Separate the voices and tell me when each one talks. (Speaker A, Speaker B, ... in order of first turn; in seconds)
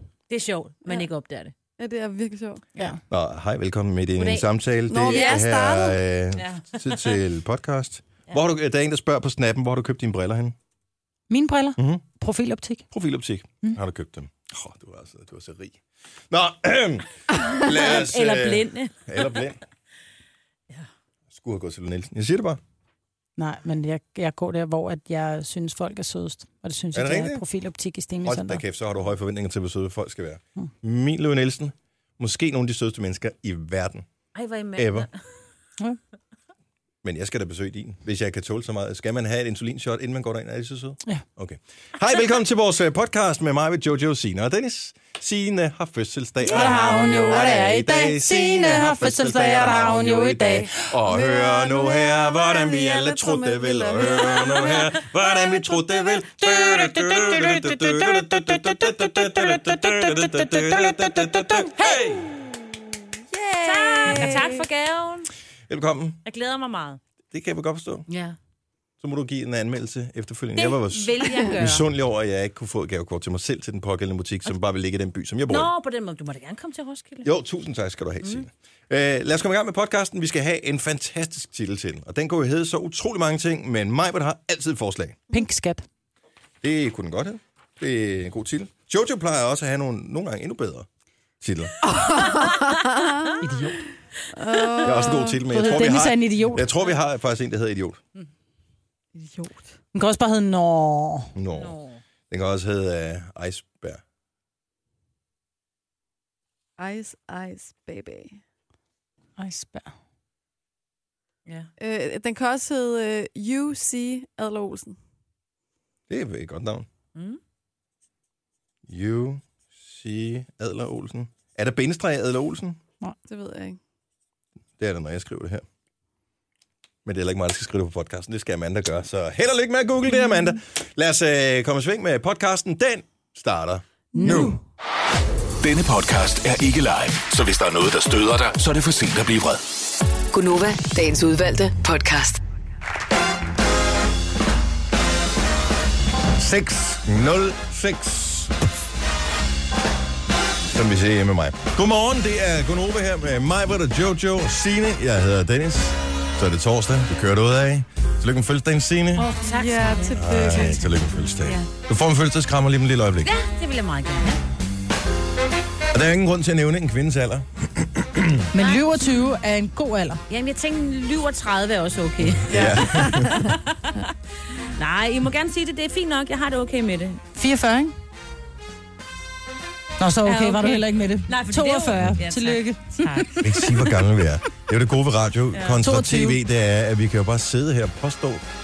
Speaker A: 0.3-1.5, 4.2-4.5, 5.1-7.1, 17.6-19.2, 34.3-35.1, 63.6-65.3, 66.2-67.0, 68.1-68.3, 70.5-71.9, 75.5-77.3, 101.6-102.0, 117.1-117.4, 159.2-160.8, 161.4-161.7, 163.2-164.4, 168.6-169.1, 170.3-173.1, 173.7-174.1, 174.7-177.2, 180.2-183.9, 185.5-185.8
Speaker B: 1.8-2.6, 4.9-5.5, 51.0-54.6, 91.8-93.4, 94.3-95.4, 99.1-99.7, 106.8-108.4, 111.8-115.0, 123.3-123.8, 134.1-134.5, 159.5-160.8, 172.5-173.6
Speaker C: 3.1-10.5, 11.8-12.0, 12.9-19.6, 21.3-22.6, 26.9-27.4, 28.2-34.0, 34.8-35.1, 37.0-62.2, 65.7-66.2, 67.3-68.0, 69.0-75.7, 77.2-85.2, 86.6-90.9, 91.4-91.7, 94.8-98.0, 101.3-101.7, 102.3-104.0, 116.1-116.8, 118.9-122.8, 124.8-125.6, 127.0-134.6, 146.4-148.5, 150.7-159.3, 160.1-163.3, 165.9-168.4, 172.4-173.3, 183.4-188.4
Speaker D: 11.3-12.8, 23.4-28.6, 46.5-50.9, 56.4-61.7, 63.3-64.5, 85.3-85.8, 93.4-93.8, 95.5-96.7, 99.9-101.3, 109.4-109.9, 168.5-170.2, 177.3-177.9, 180.0-183.2, 185.8-186.4
Speaker E: 135.6-139.6
Speaker F: 140.3-142.4